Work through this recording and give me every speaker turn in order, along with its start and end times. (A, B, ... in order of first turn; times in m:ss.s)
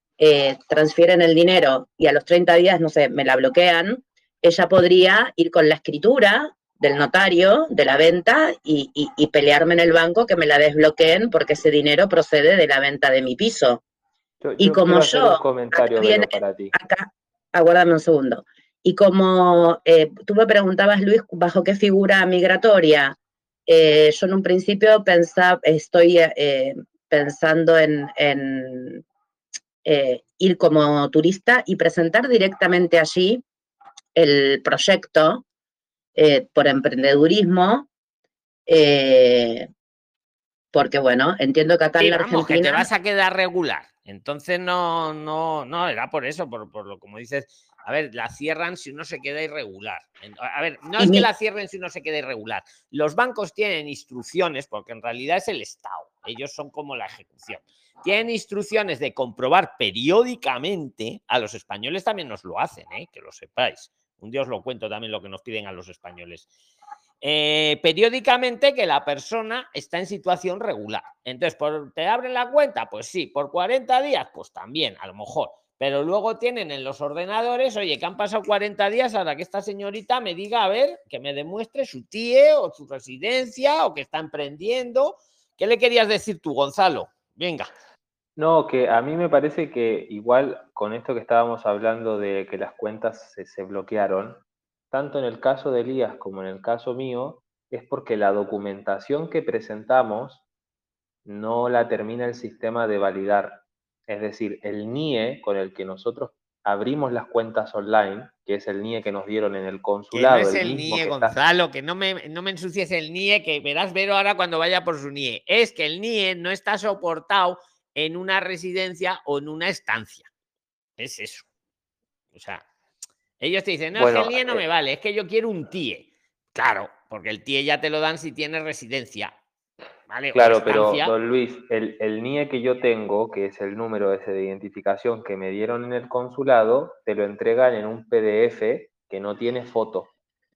0:00.2-0:13.8 A
0:14.4-0:16.7 B
0:14.6-0:29.0 A
0:29.8-0:33.4 A
0:34.2-0:35.4 A
0:36.2-0:37.9 A
0:38.7-0:39.7 A
0:40.7-0:42.9 A
0:42.0-1:06.5 C
0:51.0-0:51.3 A
1:07.2-1:27.7 C
1:28.4-1:40.4 B
1:41.2-1:51.4 B
1:50.1-2:00.3 C
2:01.0-2:01.5 C
2:02.3-2:02.7 C
2:03.4-2:09.4 C
2:04.0-2:04.6 B
2:10.1-2:11.2 C
2:10.3-2:20.1 B